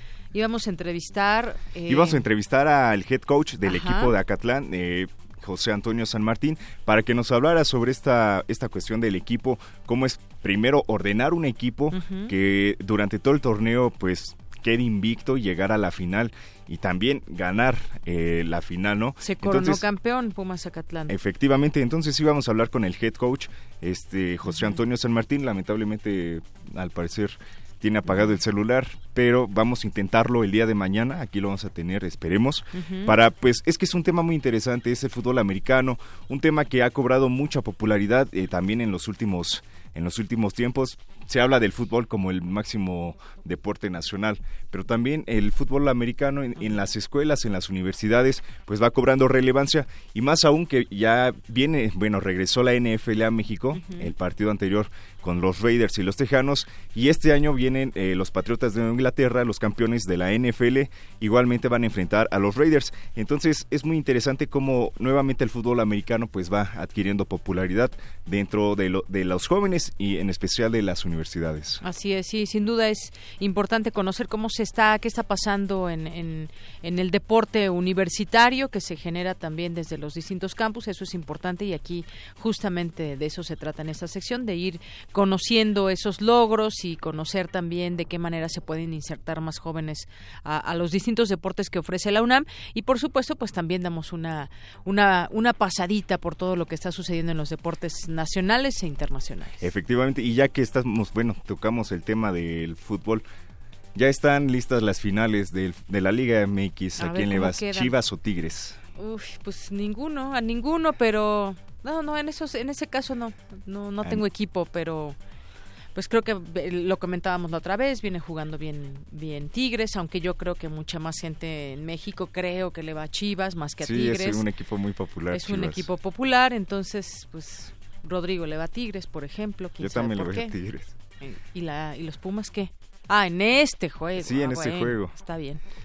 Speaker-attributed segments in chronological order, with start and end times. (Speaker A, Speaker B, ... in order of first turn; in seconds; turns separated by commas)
Speaker A: 0.3-2.3, Speaker B: 1.9-19.9, Speaker A: 3.6-4.1, Speaker A: 11.9-12.3, Speaker A: 19.2-21.1, Speaker B: 21.1-71.8, Speaker A: 24.5-24.8, Speaker A: 28.1-28.4, Speaker A: 32.7-33.1, Speaker A: 46.6-46.8, Speaker A: 53.8-54.1, Speaker A: 71.8-99.6, Speaker B: 99.6-103.3, Speaker B: 104.0-108.8, Speaker A: 107.0-107.9, Speaker A: 109.0-115.2, Speaker A: 116.0-124.4, Speaker B: 123.8-125.9, Speaker A: 125.3-130.5, Speaker B: 129.8-130.9, Speaker A: 131.2-135.6, Speaker B: 134.2-135.2